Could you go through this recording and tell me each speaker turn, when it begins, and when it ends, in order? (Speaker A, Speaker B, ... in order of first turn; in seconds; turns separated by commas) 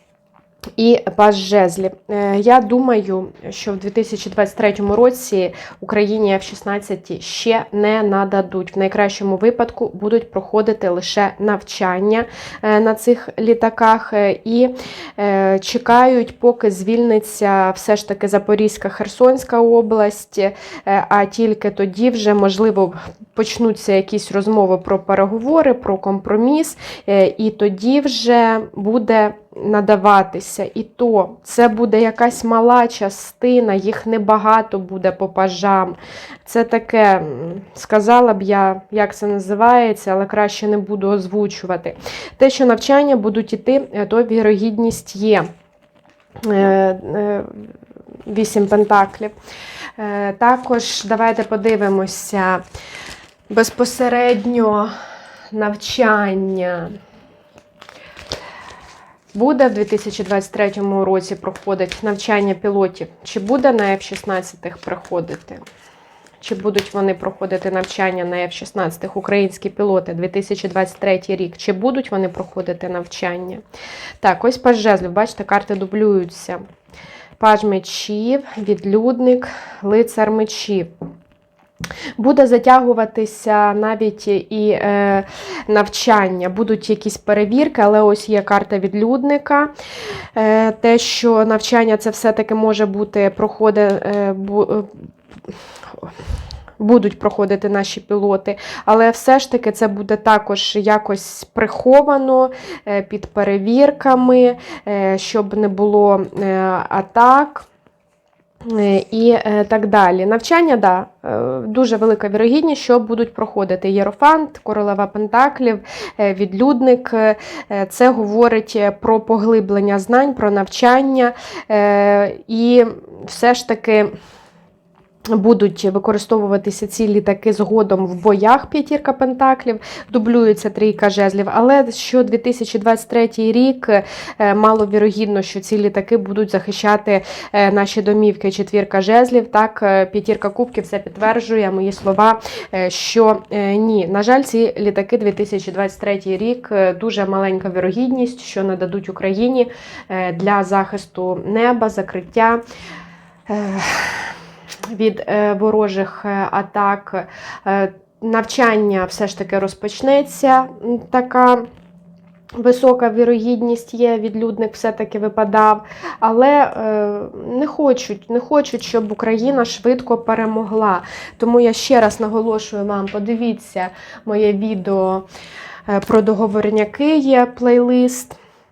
Speaker A: 0.8-45.5, Speaker A: 46.4-47.7, Speaker A: 48.3-49.3, Speaker A: 50.0-52.6, Speaker A: 53.5-54.9, Speaker A: 55.5-57.0, Speaker A: 59.3-65.6, Speaker A: 66.4-73.6, Speaker A: 74.2-76.6, Speaker A: 77.4-80.9, Speaker A: 82.2-89.7, Speaker A: 90.3-95.1, Speaker A: 96.8-107.7, Speaker A: 108.6-124.1, Speaker A: 125.3-152.6, Speaker A: 153.5-154.3, Speaker A: 154.9-161.7, Speaker A: 162.6-175.2, Speaker A: 175.9-178.4